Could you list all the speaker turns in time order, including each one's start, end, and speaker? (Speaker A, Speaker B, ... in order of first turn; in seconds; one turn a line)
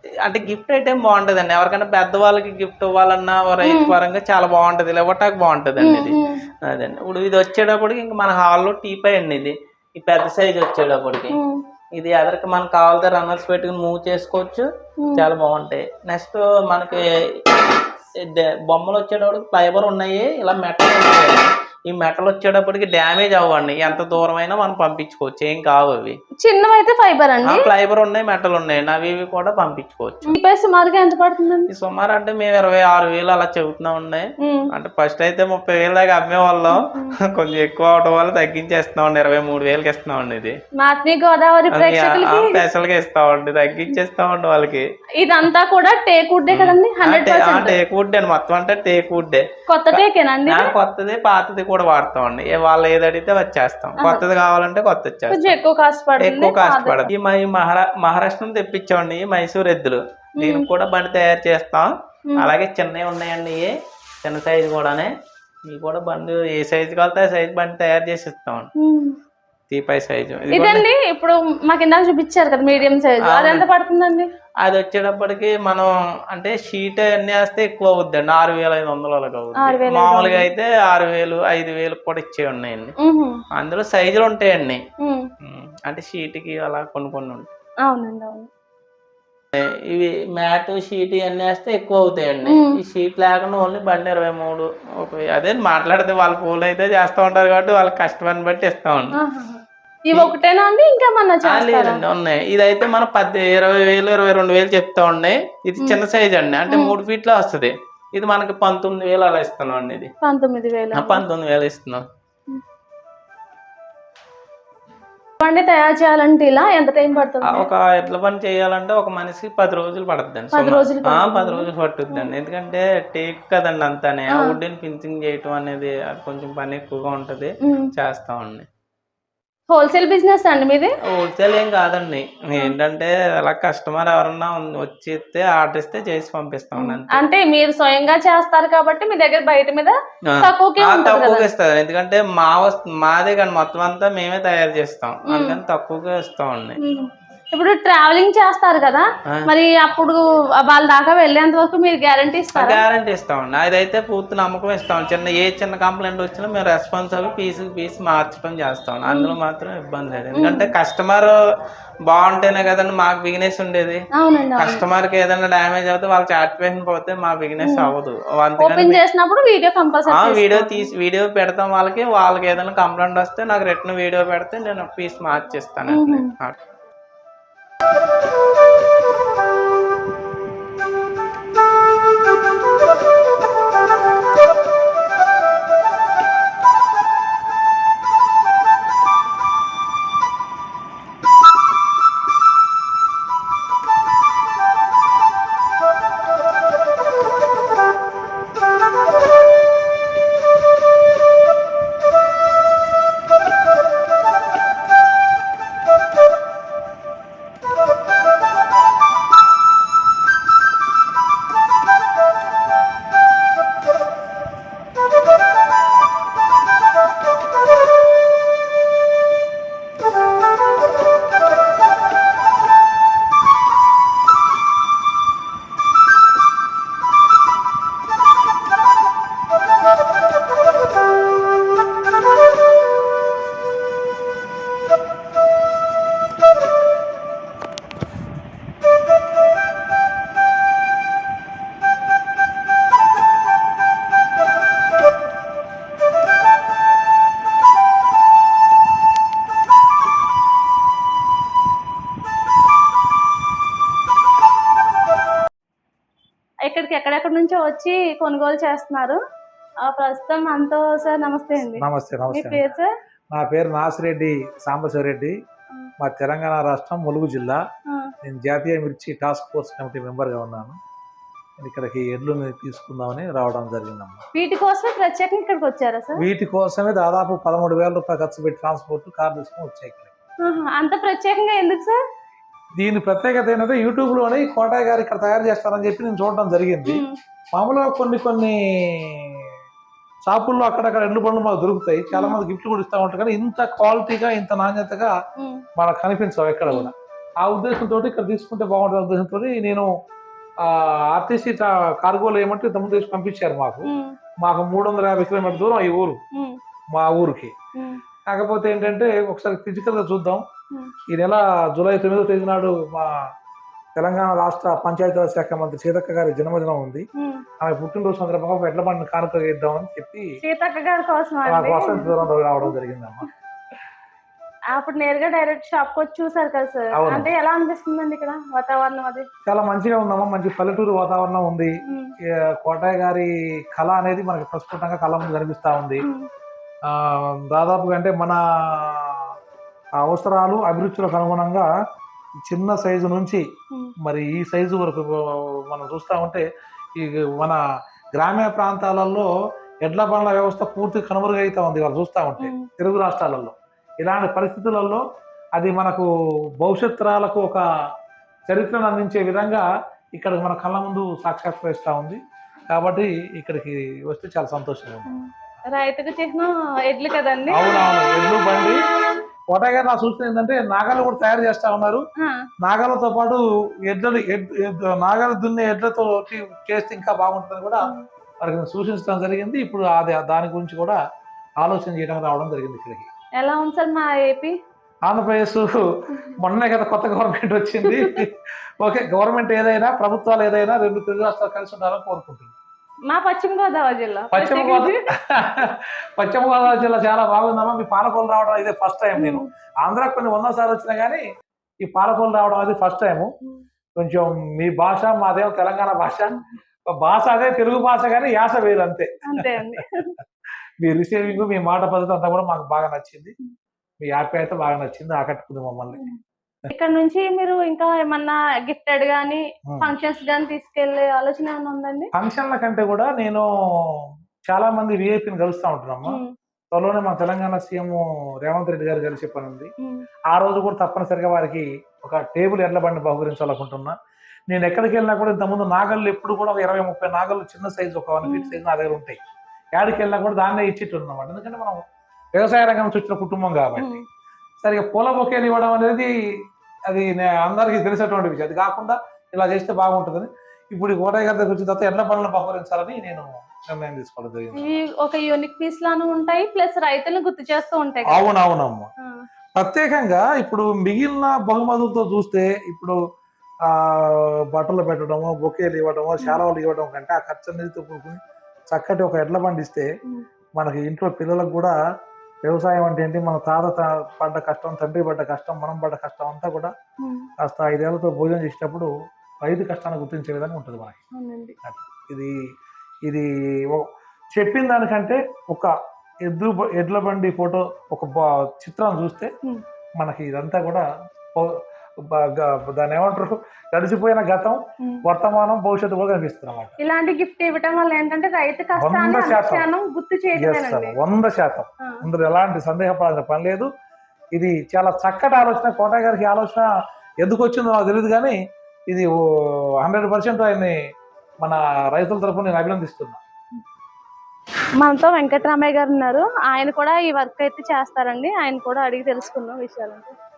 Speaker A: 0.2-11.4
Speaker B: 3.6-3.9
Speaker B: 5.8-6.4
Speaker B: 11.3-11.6
Speaker A: 12.0-14.7
Speaker B: 15.0-15.2
Speaker A: 15.2-17.0
Speaker A: 18.3-26.2
Speaker B: 26.4-27.6
Speaker A: 27.4-30.3
Speaker B: 30.3-31.7
Speaker A: 31.7-36.8
Speaker B: 36.7-37.1
Speaker A: 37.3-40.5
Speaker B: 40.8-42.6
Speaker A: 41.7-44.8
Speaker B: 45.2-47.8
Speaker A: 46.5-55.6
Speaker B: 49.7-50.7
Speaker B: 55.3-57.1
Speaker A: 56.2-63.7
Speaker B: 60.4-60.6
Speaker A: 64.2-65.1
Speaker A: 65.7-68.7
Speaker B: 68.8-69.2
Speaker A: 69.7-70.8
Speaker B: 70.5-74.3
Speaker A: 73.3-73.7
Speaker A: 74.6-82.9
Speaker B: 79.6-80.5
Speaker B: 83.0-83.4
Speaker A: 83.5-84.8
Speaker B: 85.0-85.2
Speaker A: 85.4-87.5
Speaker B: 87.8-88.5
Speaker A: 89.5-99.2
Speaker B: 92.5-92.7
Speaker B: 99.2-102.0
Speaker A: 101.4-110.1
Speaker B: 106.7-106.9
Speaker B: 110.2-111.2
Speaker A: 110.9-112.0
Speaker B: 115.4-117.7
Speaker A: 117.5-128.7
Speaker B: 120.5-122.3
Speaker B: 129.7-130.9
Speaker A: 131.1-137.2
Speaker B: 136.8-141.5
Speaker A: 140.4-146.8
Speaker B: 145.3-145.6
Speaker B: 146.8-152.8
Speaker A: 152.5-161.3
Speaker B: 159.1-159.3
Speaker B: 160.3-160.7
Speaker A: 162.1-164.0
Speaker B: 164.1-164.8
Speaker A: 164.6-169.0
Speaker B: 167.6-167.9
Speaker B: 168.6-170.9
Speaker A: 170.1-176.6
Speaker B: 175.9-176.3
Speaker B: 256.7-259.2
Speaker B: 259.8-262.9
Speaker C: 261.6-262.6
Speaker C: 263.3-265.3
Speaker C: 266.0-267.6
Speaker C: 268.2-270.8
Speaker C: 271.6-274.2
Speaker B: 274.3-276.2
Speaker C: 276.2-280.1
Speaker B: 280.4-282.0
Speaker C: 282.8-287.0
Speaker B: 286.9-287.1
Speaker C: 287.5-289.4
Speaker C: 290.3-295.1
Speaker B: 292.1-292.4
Speaker B: 295.4-295.6
Speaker C: 295.8-299.9
Speaker C: 300.6-303.9
Speaker B: 303.9-304.1
Speaker C: 304.4-306.2
Speaker C: 306.9-307.5
Speaker C: 308.3-310.4
Speaker C: 311.1-313.1
Speaker C: 313.9-317.0
Speaker B: 317.2-317.4
Speaker C: 317.6-320.3
Speaker B: 320.4-322.7
Speaker C: 321.5-323.3
Speaker B: 324.7-329.2
Speaker C: 326.9-327.3
Speaker C: 329.4-331.7
Speaker C: 332.6-336.0
Speaker B: 336.0-336.3
Speaker C: 336.9-339.3
Speaker C: 340.0-341.6
Speaker C: 342.4-343.4
Speaker C: 344.0-346.4
Speaker C: 347.0-347.6
Speaker C: 348.1-349.3
Speaker C: 349.8-355.0
Speaker B: 352.4-352.7
Speaker C: 355.6-356.1
Speaker C: 356.6-357.6
Speaker C: 358.5-359.6
Speaker C: 360.2-362.2
Speaker C: 362.7-365.1
Speaker B: 365.1-367.6
Speaker C: 367.5-368.8
Speaker C: 369.5-372.0
Speaker C: 372.6-377.9
Speaker C: 378.4-381.0
Speaker C: 381.6-383.1
Speaker B: 383.4-384.5
Speaker C: 385.1-385.8
Speaker C: 386.4-392.5
Speaker B: 387.9-388.2
Speaker B: 393.1-395.0
Speaker C: 394.3-401.2
Speaker B: 399.2-399.4
Speaker C: 401.8-403.3
Speaker C: 404.0-406.4
Speaker C: 406.9-409.8
Speaker B: 409.3-410.1
Speaker C: 410.8-413.3
Speaker C: 414.0-416.0
Speaker B: 416.7-422.1
Speaker C: 422.1-426.2
Speaker C: 426.7-429.7
Speaker C: 430.3-433.9
Speaker C: 434.5-439.2
Speaker B: 438.2-438.6
Speaker C: 439.7-441.8
Speaker C: 442.4-444.0
Speaker B: 443.8-444.0
Speaker C: 444.6-446.1
Speaker C: 446.9-454.6
Speaker B: 454.6-458.2
Speaker C: 458.1-458.9
Speaker C: 459.6-463.0
Speaker C: 463.7-468.2
Speaker C: 468.7-469.9
Speaker C: 470.6-471.7
Speaker C: 472.4-476.7
Speaker B: 477.0-477.3
Speaker C: 477.4-478.9
Speaker C: 479.4-481.0
Speaker B: 481.1-481.5
Speaker C: 481.6-482.3
Speaker C: 483.1-485.7
Speaker C: 486.3-489.3
Speaker C: 490.0-490.8
Speaker C: 492.1-496.7
Speaker B: 496.8-500.9
Speaker C: 498.8-499.7
Speaker C: 500.3-503.7
Speaker C: 504.3-506.7
Speaker C: 507.2-508.4
Speaker C: 509.8-510.7
Speaker C: 511.4-513.2
Speaker B: 514.8-520.1